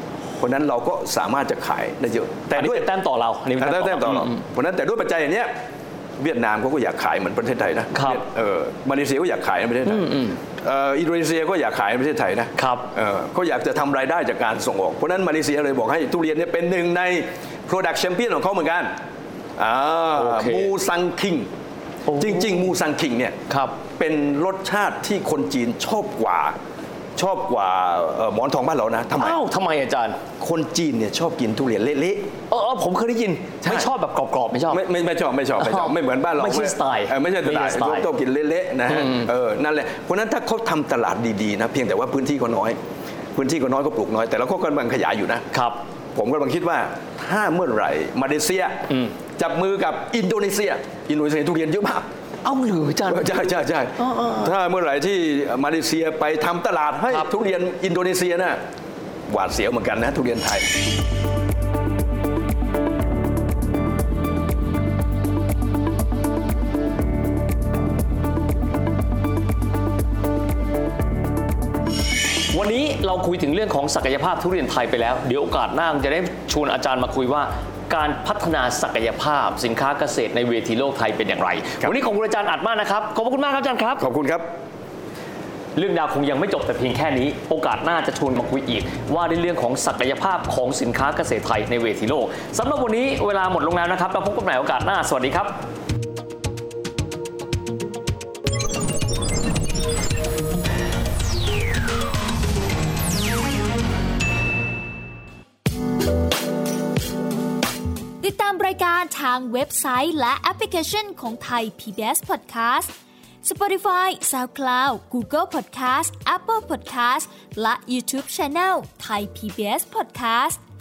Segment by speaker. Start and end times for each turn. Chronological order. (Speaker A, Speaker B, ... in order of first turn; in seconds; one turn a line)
Speaker A: 0.4-2.9
Speaker B: 2.5-4.4
Speaker A: 3.6-5.5
Speaker A: 6.2-18.9
Speaker B: 7.9-8.2
Speaker B: 9.9-10.4
Speaker B: 12.6-12.9
Speaker A: 19.6-21.5
Speaker B: 20.1-20.7
Speaker B: 22.1-22.6
Speaker A: 22.1-23.4
Speaker B: 23.5-23.8
Speaker A: 24.0-26.5
Speaker A: 27.1-29.4
Speaker B: 29.1-30.2
Speaker A: 30.4-32.3
Speaker B: 32.5-34.8
Speaker A: 33.6-33.9
Speaker A: 34.7-42.8
Speaker B: 35.6-38.1
Speaker B: 38.9-39.3
Speaker A: 43.3-45.5
Speaker B: 45.5-45.8
Speaker A: 46.1-52.0
Speaker B: 52.4-54.5
Speaker A: 53.0-58.6
Speaker A: 59.3-60.7
Speaker B: 72.5-84.0
Speaker A: 84.0-84.5
Speaker B: 85.7-95.5
Speaker C: 108.2-112.9
Speaker C: 113.4-120.6